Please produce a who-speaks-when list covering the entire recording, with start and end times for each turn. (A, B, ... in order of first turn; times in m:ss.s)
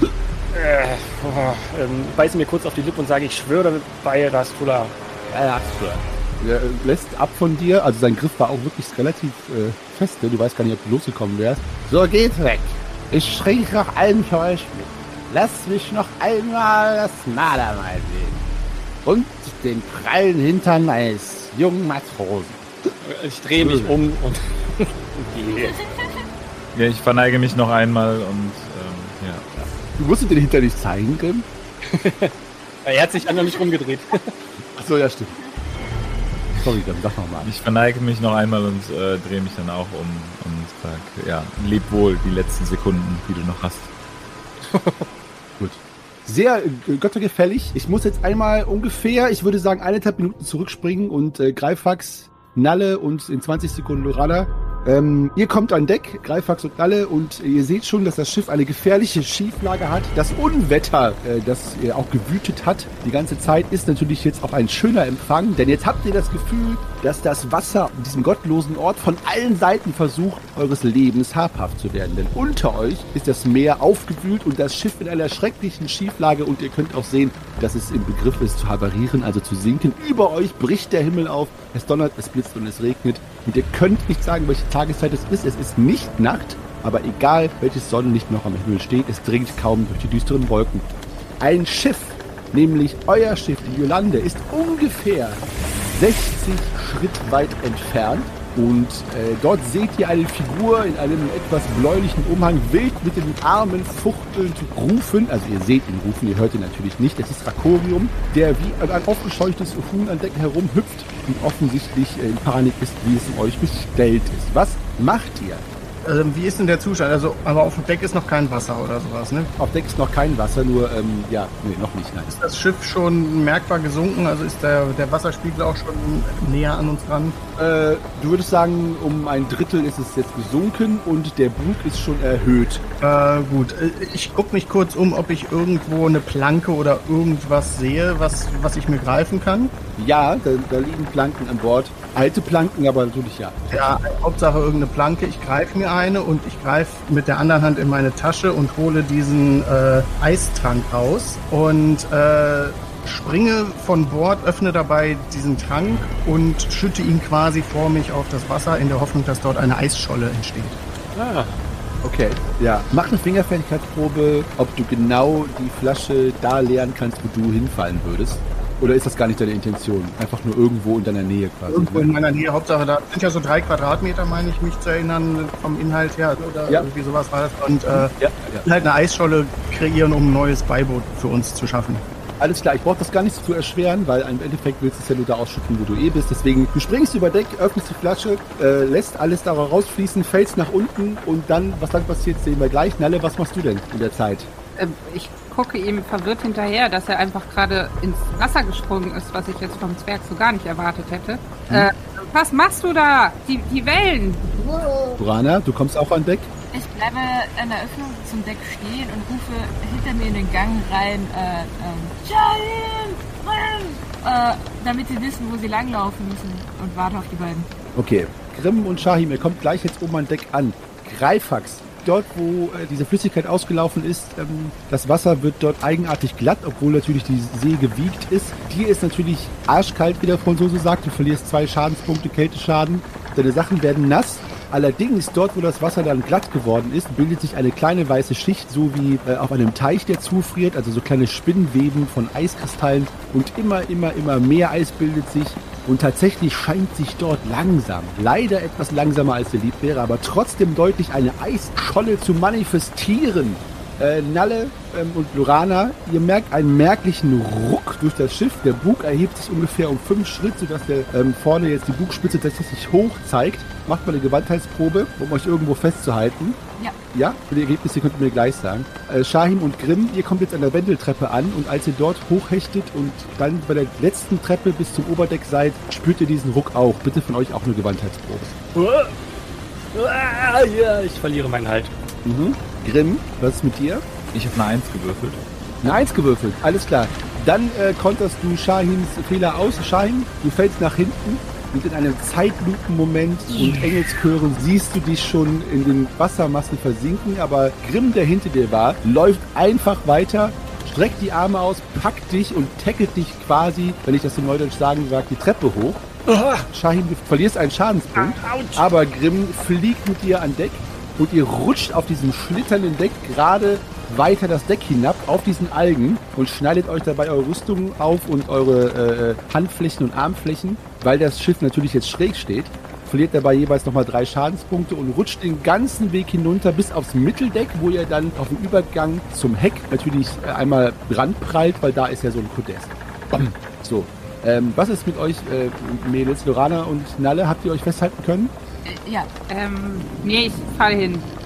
0:00.5-0:04.9 A
0:05.3-0:06.0 B
0:06.4-0:11.7 C
0:11.8-0:18.4 B
0:19.0-0:22.7 B
0:23.0-0:25.8 A
0:23.6-0:24.0 B
0:25.6-0:26.2 D
0:26.7-0:29.4 E
0:30.0-0:31.5 C
0:31.8-0:32.3 A
0:32.8-0:34.3 A
0:34.8-0:35.3 C
0:36.6-0:37.5 C
0:37.4-0:43.9 E
0:44.7-0:45.1 A
0:45.6-1:30.8 C
1:31.4-1:55.7 C
1:56.0-1:59.5 F
1:59.6-2:02.3 C
2:02.3-2:07.4 F
2:07.6-2:12.8 C
2:13.0-2:19.7 F
2:20.0-2:23.6 C
2:23.7-2:40.8 F
2:41.2-2:41.6 A
2:42.0-2:52.1 C
2:51.7-2:58.1 F
2:57.9-2:58.6 C
2:58.6-3:02.0 F
3:02.4-3:14.5 C
3:14.8-3:24.6 G
3:25.2-3:26.5 C
3:26.7-3:37.7 D
3:38.0-4:26.6 C
4:27.1-4:38.6 C
4:38.8-4:39.2 A
4:39.9-4:41.9 A
4:42.2-4:44.0 C
4:44.3-4:45.4 E
4:45.8-5:06.0 C
5:06.3-5:06.7 A
5:06.7-5:38.5 C
5:08.2-5:08.8 A
5:38.8-5:39.3 D
5:39.5-5:41.3 G